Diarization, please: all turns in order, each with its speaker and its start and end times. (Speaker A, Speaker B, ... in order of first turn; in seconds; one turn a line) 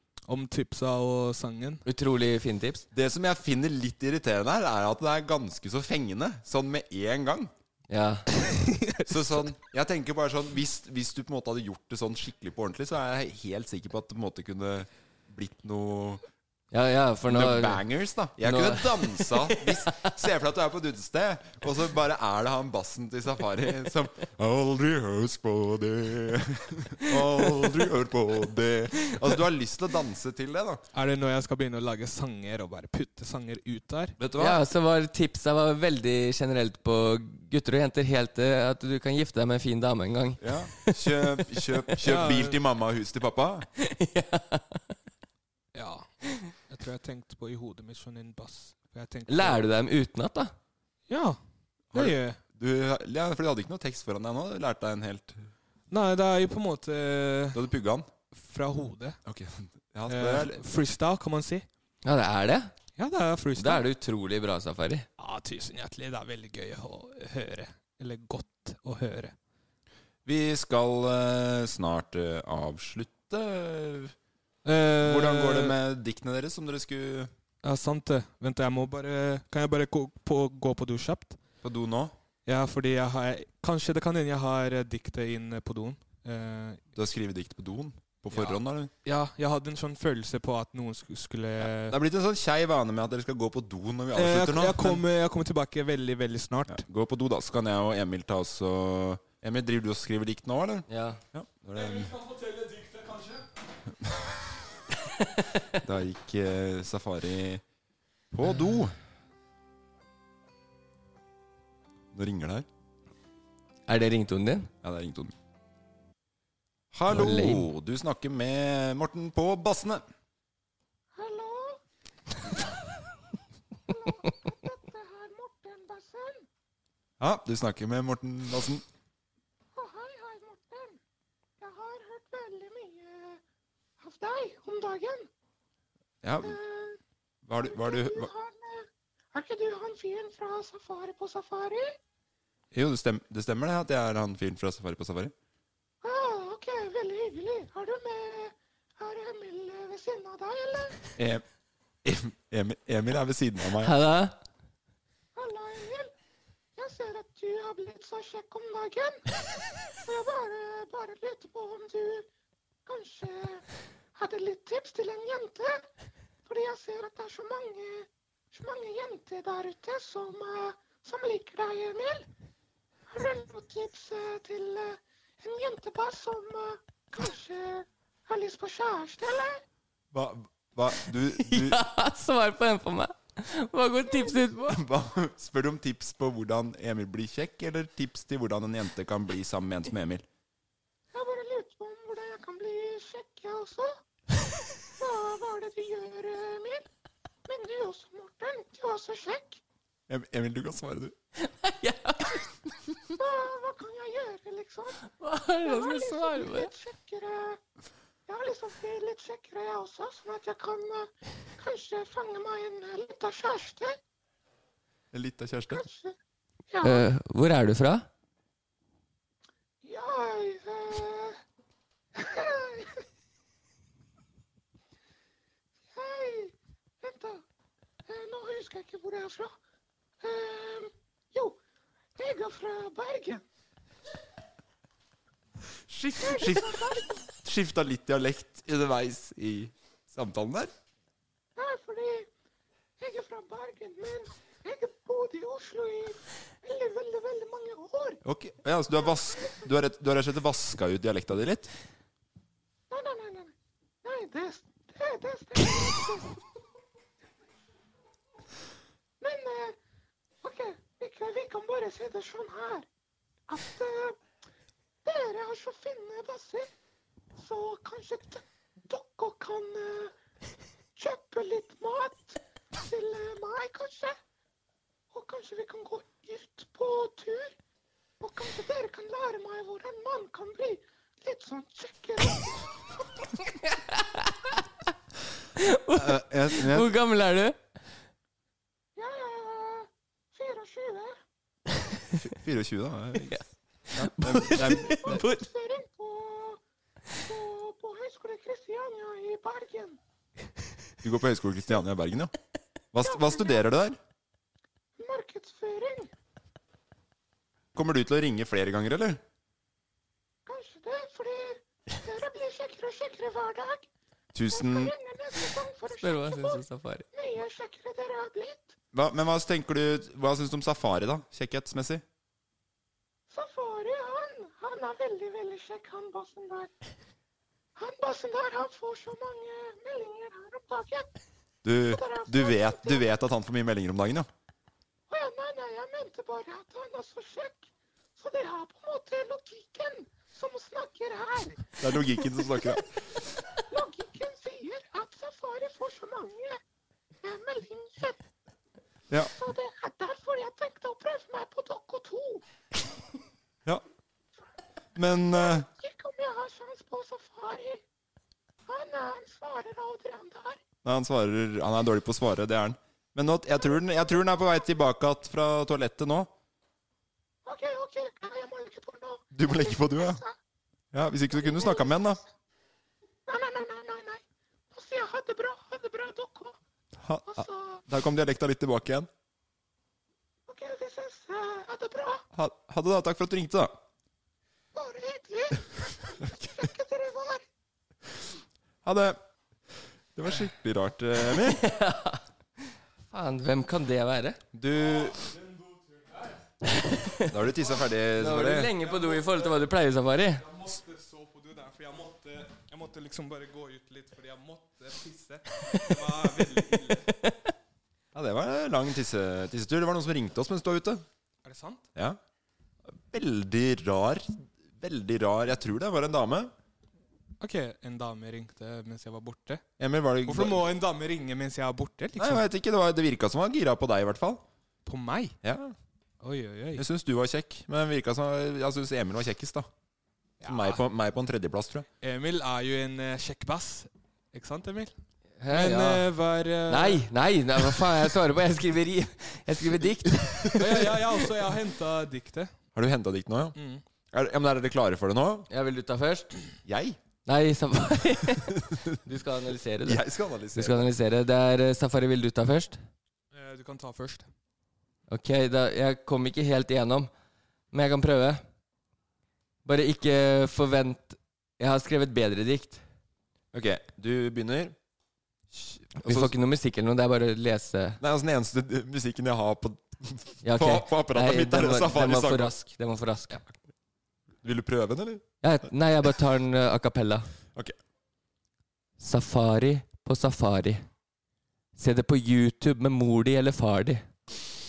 Speaker A: 0.3-1.9
Speaker B: 1.9-2.9
Speaker C: 2.9-7.5
Speaker B: 7.9-8.3
Speaker A: 8.4-9.4
Speaker C: 9.1-16.2
Speaker B: 16.7-17.8
Speaker C: 17.3-30.8
Speaker B: 18.4-20.1
Speaker B: 27.1-27.8
Speaker A: 30.9-34.2
Speaker C: 34.2-34.6
Speaker B: 34.4-41.4
Speaker C: 40.4-43.7
Speaker A: 42.0-42.6
Speaker B: 43.8-44.8
Speaker A: 45.7-49.6
Speaker B: 49.3-50.5
Speaker A: 51.1-51.4
Speaker C: 51.9-55.4
Speaker A: 51.9-52.4
Speaker A: 55.9-57.6
Speaker C: 57.5-58.1
Speaker A: 58.3-59.2
Speaker C: 59.2-60.6
Speaker A: 60.1-61.7
Speaker B: 62.0-62.7
Speaker A: 63.0-63.8
Speaker B: 63.6-65.1
Speaker A: 65.2-69.3
Speaker C: 70.2-74.1
Speaker A: 74.6-75.8
Speaker C: 75.0-77.3
Speaker A: 77.6-81.4
Speaker C: 81.6-82.1
Speaker A: 82.5-86.8
Speaker C: 87.0-88.9
Speaker A: 88.3-92.0
Speaker C: 91.6-95.0
Speaker A: 94.1-96.8
Speaker C: 96.7-102.1
Speaker B: 100.9-101.2
Speaker A: 101.7-103.5
Speaker C: 105.8-107.6
Speaker C: 108.3-109.0
Speaker C: 112.1-112.7
Speaker B: 113.9-114.7
Speaker C: 114.8-115.3
Speaker C: 116.9-120.0
Speaker B: 117.1-117.7
Speaker D: 121.1-121.8
Speaker D: 123.9-126.5
Speaker C: 127.2-128.8
Speaker D: 129.8-131.0
Speaker D: 131.6-133.4
Speaker D: 134.0-135.3
Speaker C: 136.2-136.6
Speaker D: 136.4-137.0
Speaker C: 137.5-138.3
Speaker D: 137.6-141.9
Speaker C: 142.7-145.3
Speaker D: 146.0-151.1
Speaker C: 151.2-151.4
Speaker C: 152.0-153.9
Speaker B: 153.8-154.4
Speaker D: 155.4-156.1
Speaker D: 156.8-159.2
Speaker D: 160.0-162.3
Speaker D: 162.9-165.8
Speaker D: 166.4-172.3
Speaker D: 173.1-179.6
Speaker C: 180.1-181.8
Speaker B: 181.1-184.8
Speaker D: 184.1-184.4
Speaker C: 184.7-190.2
Speaker D: 191.1-193.9
Speaker D: 195.0-196.9
Speaker D: 197.4-199.6
Speaker C: 200.1-201.1
Speaker B: 201.6-202.4
Speaker D: 203.2-205.1
Speaker B: 205.2-206.7
Speaker D: 205.6-207.6
Speaker D: 208.3-213.9
Speaker C: 215.1-215.8
Speaker D: 215.7-216.1
Speaker D: 216.7-217.1
Speaker B: 216.8-218.1
Speaker D: 219.8-221.4
Speaker D: 222.2-223.0
Speaker D: 225.9-227.4
Speaker D: 228.1-229.5
Speaker D: 230.2-231.6
Speaker D: 232.2-233.4
Speaker C: 235.9-240.7
Speaker D: 236.2-237.2
Speaker D: 241.6-242.3
Speaker D: 243.0-248.2
Speaker C: 248.2-251.7
Speaker D: 248.9-249.7
Speaker D: 252.9-256.4
Speaker D: 259.2-259.8
Speaker D: 260.4-262.9
Speaker D: 263.5-264.2
Speaker D: 265.1-266.7
Speaker D: 267.4-270.1
Speaker D: 270.9-274.1
Speaker D: 275.1-277.5
Speaker D: 278.2-282.6
Speaker B: 285.6-287.6
Speaker C: 286.0-286.9
Speaker D: 289.0-291.2
Speaker C: 292.2-293.4
Speaker B: 293.3-295.4
Speaker C: 293.9-295.2
Speaker D: 294.7-296.6
Speaker D: 297.2-300.0
Speaker C: 301.0-302.3
Speaker C: 302.9-304.0
Speaker D: 303.0-303.6
Speaker D: 305.0-306.1
Speaker C: 307.7-309.2
Speaker D: 310.4-313.9
Speaker C: 314.3-314.9
Speaker D: 314.5-318.7
Speaker B: 315.9-317.1
Speaker C: 318.9-322.0
Speaker D: 323.3-326.7
Speaker D: 327.8-331.1
Speaker C: 331.6-334.3
Speaker D: 331.9-333.1
Speaker D: 335.1-341.9
Speaker C: 341.8-342.9
Speaker D: 343.7-346.6
Speaker D: 347.2-348.2
Speaker D: 349.3-352.4
Speaker C: 354.9-355.7
Speaker D: 355.3-357.8
Speaker D: 358.7-360.6
Speaker C: 360.8-366.3
Speaker D: 363.5-364.7
Speaker D: 367.4-370.4
Speaker C: 369.3-370.2
Speaker C: 370.9-372.2
Speaker D: 371.3-372.2
Speaker D: 373.3-376.6
Speaker C: 377.0-379.1
Speaker D: 377.2-377.8
Speaker D: 380.5-382.2
Speaker C: 382.3-383.8
Speaker D: 384.7-387.4
Speaker C: 388.8-389.2
Speaker C: 390.1-391.7
Speaker B: 391.4-392.2
Speaker B: 393.1-394.4
Speaker C: 394.5-395.2
Speaker A: 395.1-396.4
Speaker B: 396.9-397.2
Speaker C: 397.3-398.7
Speaker B: 398.2-400.4
Speaker A: 398.8-399.6
Speaker A: 400.4-407.1
Speaker B: 407.1-407.4
Speaker C: 408.1-411.0
Speaker A: 411.4-411.9
Speaker C: 412.9-416.5
Speaker A: 417.4-419.6
Speaker C: 419.8-420.6
Speaker A: 420.2-422.4
Speaker C: 422.2-424.4
Speaker A: 424.9-425.4
Speaker C: 425.4-425.7
Speaker A: 426.2-426.8
Speaker C: 426.8-429.7
Speaker A: 430.4-430.8
Speaker C: 430.4-431.9
Speaker A: 432.0-434.9
Speaker B: 435.4-436.1
Speaker A: 435.5-437.0
Speaker B: 436.7-440.8
Speaker C: 440.3-440.7
Speaker A: 440.6-442.5
Speaker C: 442.7-443.6
Speaker A: 443.6-443.8
Speaker C: 444.1-445.5
Speaker B: 445.5-446.4
Speaker C: 446.7-447.0
Speaker B: 447.2-452.8
Speaker C: 449.9-450.9
Speaker A: 453.3-454.3
Speaker B: 455.1-457.1
Speaker B: 457.7-458.4
Speaker B: 459.6-462.8
Speaker C: 463.5-464.8
Speaker C: 465.5-466.3
Speaker B: 466.0-468.0
Speaker C: 468.0-472.6
Speaker B: 470.4-473.4
Speaker C: 474.4-475.2
Speaker B: 475.4-477.3
Speaker B: 479.0-480.8
Speaker B: 481.8-484.1